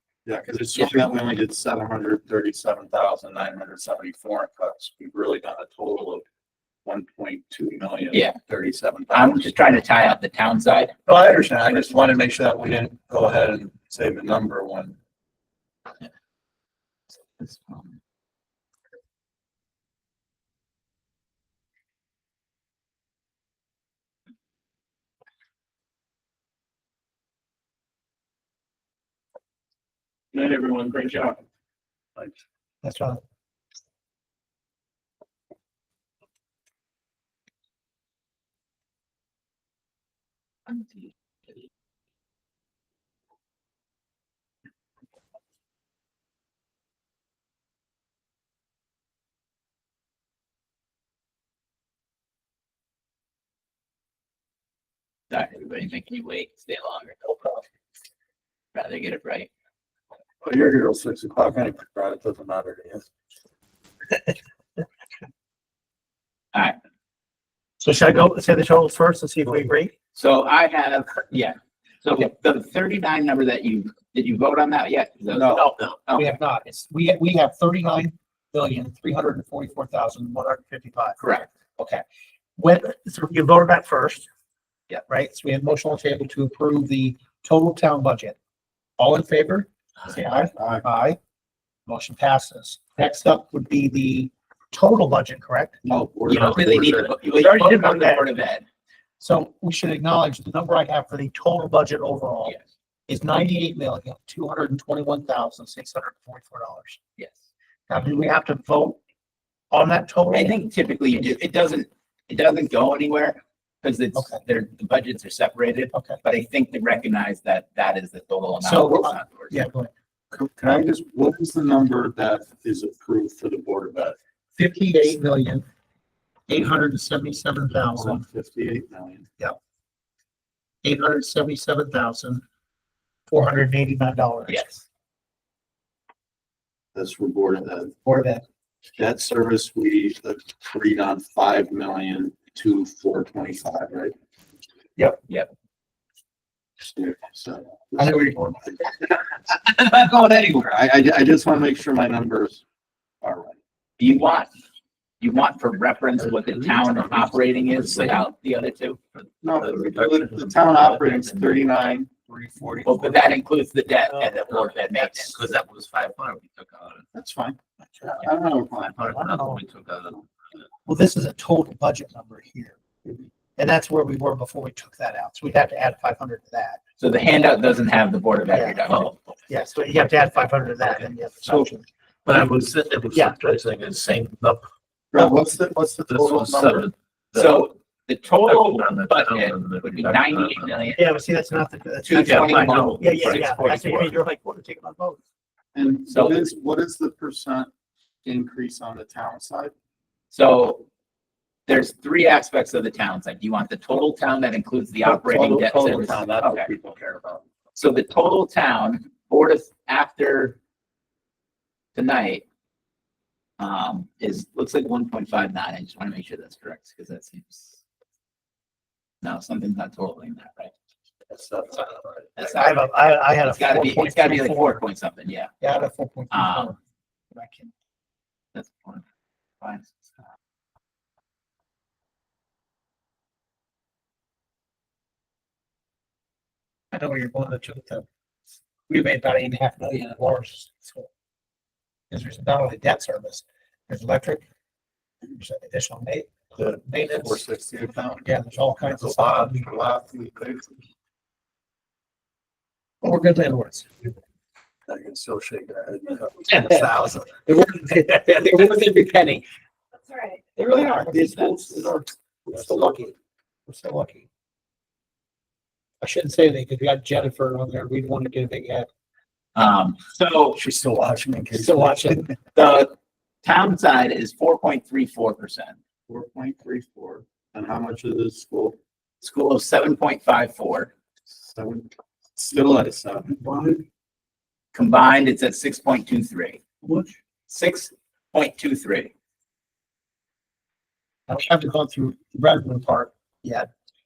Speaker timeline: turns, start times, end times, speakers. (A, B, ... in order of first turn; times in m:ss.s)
0:00.2-0:06.2 A
0:06.8-0:09.5 A
0:09.1-0:10.9 B
0:11.1-0:15.0 A
0:17.4-0:17.9 B
0:30.3-0:31.4 A
0:32.8-0:33.2 C
0:40.7-0:41.1 B
0:55.3-0:57.4 B
0:58.7-0:59.5 B
1:00.4-1:03.1 A
1:07.8-1:09.9 C
1:10.1-1:16.3 B
1:15.3-1:15.7 A
1:16.1-1:21.2 C
1:21.2-1:21.5 B
1:21.8-1:22.0 C
1:22.6-1:24.3 C
1:25.1-1:28.4 C
1:29.0-1:31.2 C
1:30.6-1:30.8 A
1:31.8-1:35.8 C
1:35.8-1:37.1 A
1:36.3-1:38.6 B
1:37.3-1:38.2 C
1:39.2-1:42.6 C
1:43.1-1:47.0 C
1:47.9-1:49.0 C
1:49.7-1:50.5 C
1:50.3-1:59.6 B
1:54.1-1:54.4 C
1:55.9-1:56.2 C
1:58.6-1:59.9 C
2:00.3-2:04.2 A
2:04.6-2:05.6 C
2:06.5-2:08.2 C
2:07.9-2:09.3 A
2:10.8-2:12.4 C
2:13.3-2:14.6 C
2:14.5-2:14.8 B
2:16.9-2:17.9 A
2:18.0-2:18.4 C
2:19.0-2:24.1 A
2:26.8-2:32.6 A
2:28.0-2:28.6 C
2:33.2-2:33.6 A
2:34.0-2:34.5 B
2:35.2-2:39.0 B
2:36.4-2:38.1 D
2:39.4-2:43.2 A
2:39.4-2:41.6 D
2:42.6-2:43.0 D
2:42.8-2:45.4 B
2:44.2-2:47.0 D
2:47.1-2:49.2 A
2:48.9-2:50.3 D
2:49.3-2:49.6 C
2:50.8-2:52.8 C
2:53.6-2:56.8 C
2:57.0-2:59.2 B
2:58.5-3:02.4 C
3:02.2-3:04.7 D
3:03.1-3:03.4 C
3:05.1-3:06.9 A
3:06.1-3:07.6 D
3:07.3-3:11.0 B
3:08.4-3:10.8 D
3:10.9-3:15.2 C
3:12.1-3:13.4 D
3:12.1-3:14.1 B
3:15.7-3:17.7 A
3:16.1-3:16.4 B
3:18.2-3:19.7 A
3:20.3-3:20.8 B
3:21.7-3:26.7 B
3:25.0-3:27.4 A
3:27.8-3:30.6 B
3:31.9-3:32.4 B
3:33.6-3:37.8 B
3:39.2-3:40.7 B
3:41.3-3:42.3 A
3:42.4-3:42.9 B
3:42.4-3:44.8 C
3:43.4-3:45.5 B
3:45.6-3:46.8 C
3:46.3-3:46.7 B
3:47.3-3:47.7 C
3:48.5-3:49.0 B
3:49.6-3:50.1 B
3:56.9-3:58.0 C
3:58.9-4:01.1 C
4:02.1-4:04.4 C
4:05.2-4:07.4 C
4:06.6-4:08.3 A
4:08.2-4:09.7 C
4:08.8-4:10.8 A
4:13.0-4:14.1 C
4:14.9-4:16.9 A
4:16.5-4:19.4 C
4:20.2-4:23.1 C
4:21.1-4:23.0 A
4:21.1-4:21.5 B
4:23.7-4:24.3 C
4:26.0-4:28.9 C
4:29.5-4:30.6 B
4:30.6-4:32.2 A
4:31.5-4:32.3 C
4:32.5-4:32.9 B
4:33.4-4:35.8 B
4:36.1-4:38.8 A
4:39.2-4:40.9 B
4:41.3-4:43.7 A
4:43.4-4:43.8 C
4:44.7-4:46.6 B
4:47.5-4:49.1 B
4:51.3-4:53.7 C